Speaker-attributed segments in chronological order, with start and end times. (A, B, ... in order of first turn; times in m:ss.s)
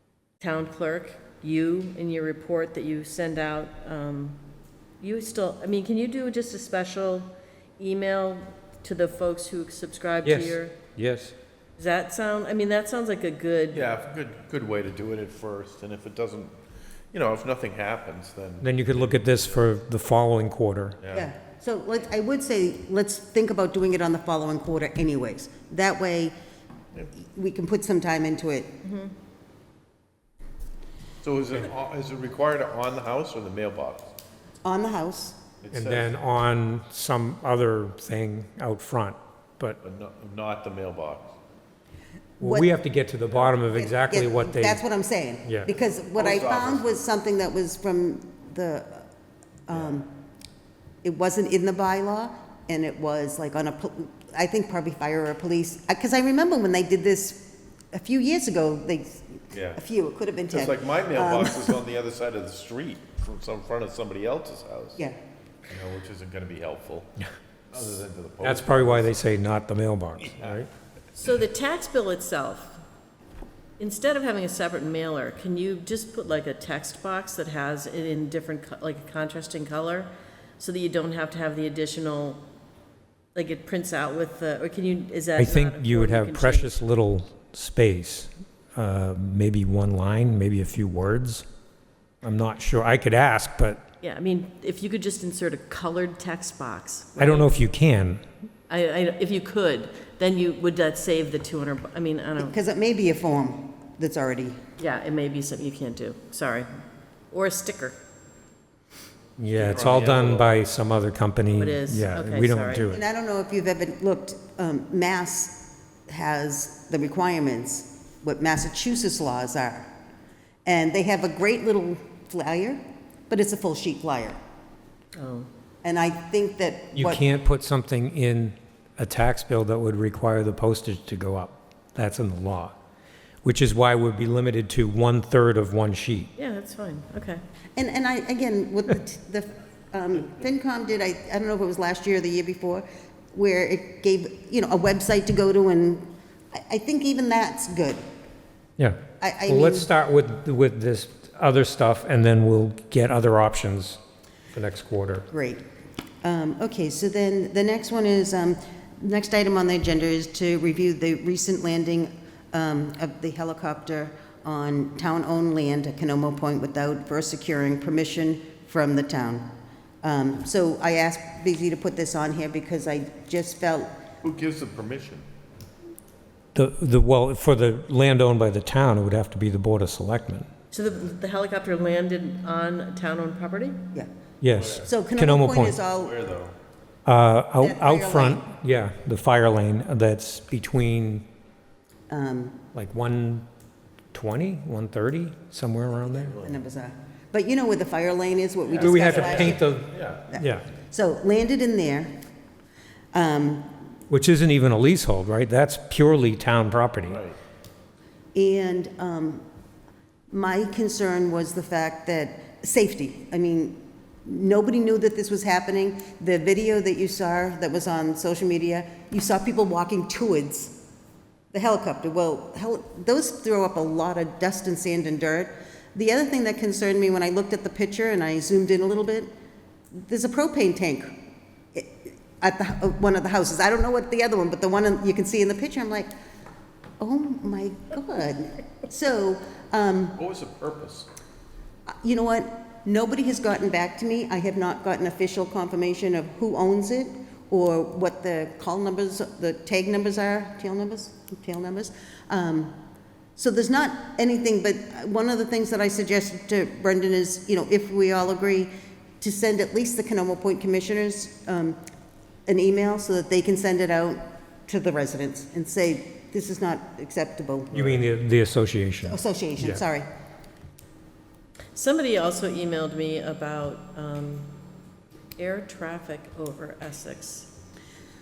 0:00.4-0:04.4 A
0:05.0-0:10.7 A
0:10.2-0:11.3 B
0:11.8-0:13.9 A
0:13.7-0:16.5 C
0:17.1-0:19.6 C
0:18.6-0:21.0 B
0:21.0-0:21.3 C
0:21.1-0:26.3 D
0:27.1-0:28.8 D
0:28.8-0:29.1 A
0:31.2-0:34.1 C
0:34.6-0:35.4 D
0:35.6-0:36.1 C
0:35.7-0:39.8 B
0:39.8-0:41.3 C
0:42.4-0:42.7 D
0:42.4-0:44.8 B
0:43.5-0:49.0 D
0:46.1-0:46.9 C
0:49.7-0:50.1 D
0:51.0-1:01.8 D
0:59.5-0:59.8 C
1:00.5-1:05.0 C
1:05.7-1:07.1 C
1:07.7-1:09.2 C
1:08.4-1:10.7 B
1:11.2-1:12.8 A
1:13.8-1:22.4 A
1:23.3-1:26.8 A
1:25.4-1:31.4 B
1:32.2-1:33.8 B
1:34.0-1:37.6 A
1:37.2-1:38.2 B
1:38.7-1:42.5 A
1:42.4-1:44.6 D
1:44.8-1:46.7 A
1:47.3-1:48.0 A
1:49.4-1:53.0 B
1:49.5-1:50.6 C
1:51.6-1:52.9 A
1:52.9-1:59.9 D
2:00.6-2:02.8 D
2:03.3-2:04.4 D
2:05.2-2:05.5 A
2:05.8-2:07.2 D
2:06.9-2:12.8 B
2:13.4-2:16.3 B
2:16.4-2:17.4 A
2:17.8-2:28.0 D
2:28.8-2:34.0 B
2:29.2-2:29.9 D
2:34.5-2:35.3 B
2:35.3-2:35.6 D
2:36.2-2:49.5 D
2:50.0-2:53.9 D
2:54.2-2:55.2 C
2:56.5-3:00.5 B
3:00.7-3:03.8 A
3:04.4-3:05.8 B
3:04.5-3:04.9 C
3:04.8-3:06.2 D
3:06.0-3:06.5 C
3:07.0-3:11.2 B
3:07.6-3:08.4 D
3:12.1-3:12.6 D
3:12.7-3:13.4 B
3:14.1-3:16.4 B
3:16.3-3:22.1 D
3:18.8-3:20.6 B
3:18.8-3:20.2 C
3:23.1-3:23.7 D
3:24.1-3:27.2 B
3:27.1-3:27.4 C
3:28.3-3:29.4 D
3:30.3-3:40.7 D
3:41.5-3:49.3 D
3:49.9-3:51.1 D
3:51.7-3:56.1 D
3:57.0-4:00.2 D
4:00.2-4:01.1 C
4:01.9-4:12.7 D
4:13.4-4:21.8 D
4:22.5-4:27.9 D
4:27.7-4:29.8 B
4:29.0-4:30.0 D
4:31.7-4:34.5 A
4:35.4-4:37.5 A